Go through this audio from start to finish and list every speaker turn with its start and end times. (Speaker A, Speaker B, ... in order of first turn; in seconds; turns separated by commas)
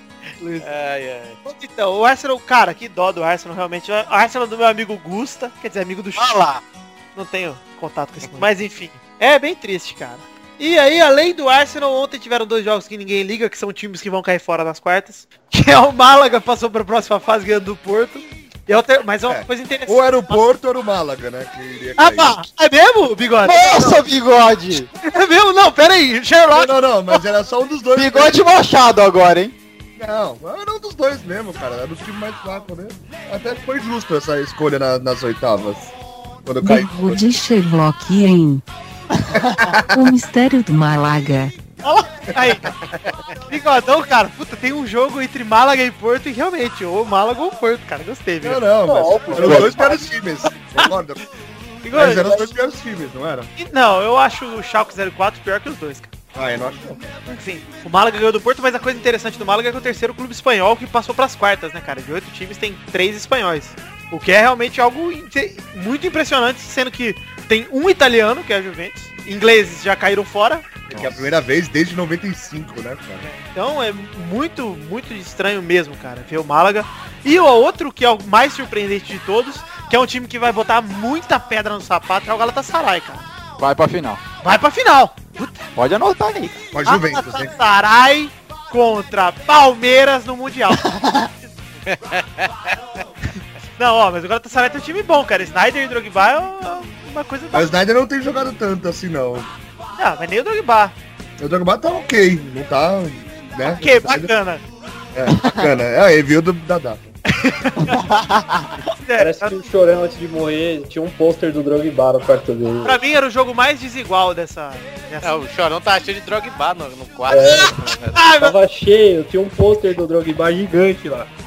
Speaker A: 0.4-0.7, Speaker B: 0.6-1.4, Speaker A: 1.4-6.3, Speaker C: 6.3-6.6, Speaker A: 7.2-20.5, Speaker D: 19.3-22.4, Speaker A: 22.0-24.1, Speaker C: 23.4-24.9, Speaker A: 25.0-27.2, Speaker D: 26.5-28.4, Speaker C: 28.0-29.5, Speaker D: 30.0-35.9, Speaker D: 36.5-37.2, Speaker E: 36.6-38.6, Speaker C: 39.3-39.8, Speaker D: 39.3-39.8, Speaker E: 39.9-41.6, Speaker A: 41.8-42.8, Speaker A: 43.5-48.6, Speaker D: 48.4-51.2, Speaker F: 48.8-50.0, Speaker C: 49.4-49.8, Speaker A: 51.8-52.4, Speaker D: 51.9-53.5, Speaker F: 52.0-52.4, Speaker A: 53.6-56.1, Speaker D: 56.3-57.0, Speaker A: 57.3-70.7, Speaker D: 70.9-73.3, Speaker C: 70.9-71.3, Speaker A: 73.2-83.3, Speaker C: 83.6-84.2, Speaker A: 84.4-85.7, Speaker C: 85.8-86.6, Speaker D: 86.7-87.5, Speaker A: 86.8-91.3, Speaker C: 90.9-91.3, Speaker B: 91.9-92.5, Speaker A: 93.8-97.8, Speaker D: 97.5-99.5, Speaker A: 100.0-101.0, Speaker D: 101.4-104.3, Speaker A: 103.7-104.6, Speaker D: 105.1-107.1, Speaker A: 107.3-108.0, Speaker C: 107.9-108.8, Speaker A: 108.9-109.6, Speaker F: 109.2-113.0, Speaker A: 112.8-115.4, Speaker B: 115.2-118.2, Speaker F: 117.3-121.3, Speaker A: 118.2-118.5